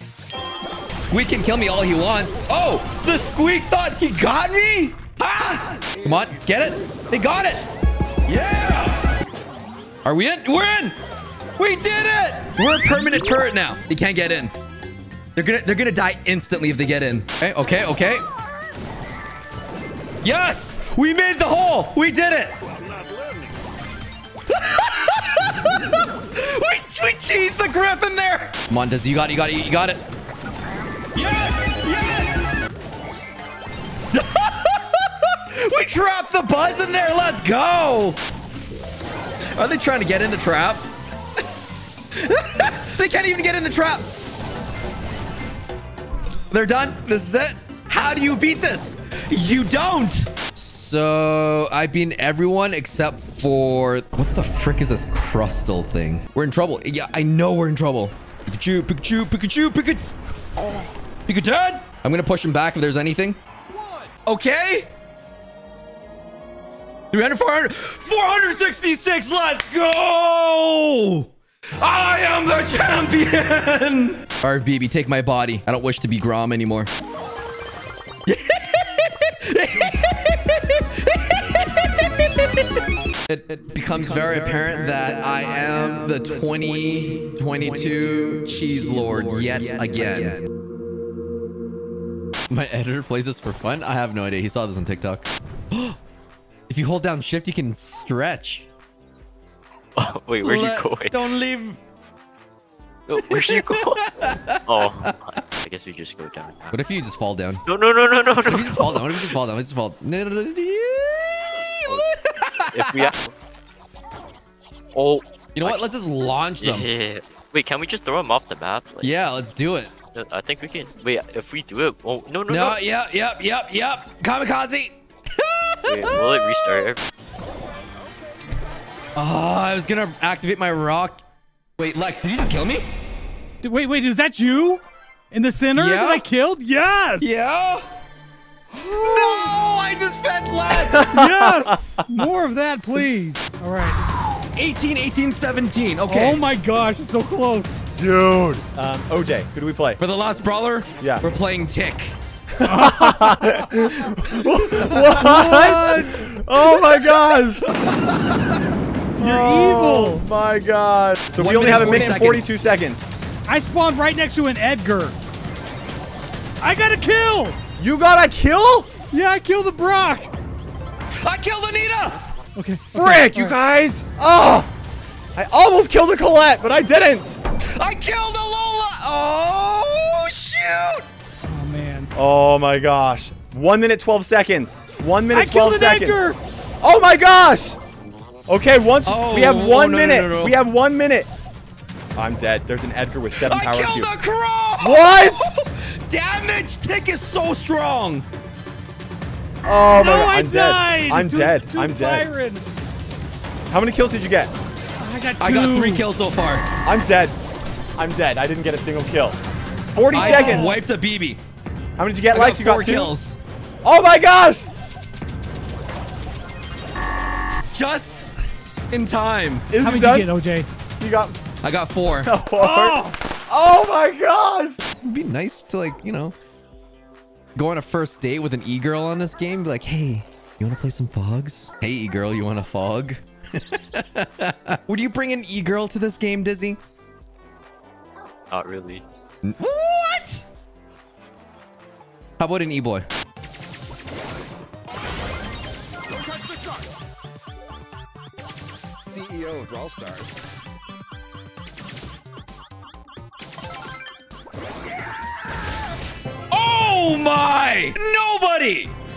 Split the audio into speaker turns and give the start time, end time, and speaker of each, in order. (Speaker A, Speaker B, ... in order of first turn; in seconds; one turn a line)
Speaker A: 0.9-7.7
Speaker A: 8.3-9.0
Speaker A: 10.1-11.0
Speaker A: 11.6-14.5
Speaker A: 15.3-18.2
Speaker A: 20.2-22.5
Speaker A: 24.5-30.0
Speaker A: 31.1-32.5
Speaker A: 34.1-38.2
Speaker A: 39.6-40.9
Speaker A: 42.1-44.1
Speaker A: 46.5-60.0
Speaker A: 61.3-63.4
Speaker A: 64.2-64.9
Speaker A: 67.1-76.9
Speaker A: 78.3-82.7
Speaker A: 83.3-90.5
Speaker A: 92.5-96.0
Speaker A: 96.7-98.7
Speaker B: 100.0-101.2
Speaker A: 100.4-101.8
Speaker B: 103.1-106.8
Speaker A: 103.2-105.1
Speaker A: 106.7-107.6
Speaker B: 107.7-109.5
Speaker A: 108.4-113.1
Speaker B: 112.6-113.3
Speaker B: 114.9-115.9
Speaker A: 115.5-116.9
Speaker B: 116.6-119.1
Speaker A: 119.0-119.9
Speaker B: 120.1-122.8
Speaker A: 122.5-126.8
Speaker B: 125.9-127.0
Speaker A: 129.2-131.2
Speaker A: 131.8-132.8
Speaker C: 133.6-137.4
Speaker A: 135.7-136.2
Speaker A: 137.2-137.9
Speaker C: 138.8-139.5
Speaker A: 138.9-141.3
Speaker D: 140.8-141.7
Speaker C: 141.0-144.0
Speaker A: 144.3-146.4
Speaker C: 146.1-147.8
Speaker D: 147.9-150.0
Speaker A: 150.0-152.2
Speaker D: 151.0-151.3
Speaker D: 152.5-157.7
Speaker C: 152.7-153.6
Speaker A: 153.8-158.6
Speaker D: 159.2-163.1
Speaker C: 159.2-160.2
Speaker A: 161.3-162.5
Speaker C: 163.5-165.2
Speaker C: 166.6-167.6
Speaker D: 167.8-168.9
Speaker C: 169.1-170.3
Speaker A: 171.2-172.2
Speaker C: 172.6-173.6
Speaker D: 172.9-174.7
Speaker D: 175.4-177.4
Speaker A: 177.7-181.1
Speaker C: 181.5-182.1
Speaker D: 182.2-186.2
Speaker C: 185.3-186.4
Speaker D: 186.8-187.8
Speaker D: 188.5-191.3
Speaker A: 189.1-190.6
Speaker D: 192.2-194.1
Speaker A: 193.4-198.2
Speaker D: 194.8-195.5
Speaker D: 199.7-202.3
Speaker C: 199.9-202.8
Speaker D: 203.7-204.5
Speaker C: 205.0-206.1
Speaker A: 205.4-206.7
Speaker D: 206.8-207.4
Speaker D: 208.0-209.4
Speaker D: 209.9-210.8
Speaker C: 210.1-210.8
Speaker A: 210.1-211.4
Speaker D: 212.0-213.1
Speaker A: 212.3-213.4
Speaker D: 213.8-214.7
Speaker A: 217.7-218.4
Speaker A: 218.9-219.7
Speaker D: 219.7-220.3
Speaker C: 219.8-220.7
Speaker D: 221.0-221.3
Speaker A: 221.6-222.3
Speaker D: 222.2-224.8
Speaker C: 222.6-223.2
Speaker A: 224.9-226.3
Speaker A: 227.6-236.8
Speaker B: 238.5-239.0
Speaker A: 239.4-240.4
Speaker A: 242.4-243.1
Speaker A: 249.2-250.3
Speaker A: 256.5-258.9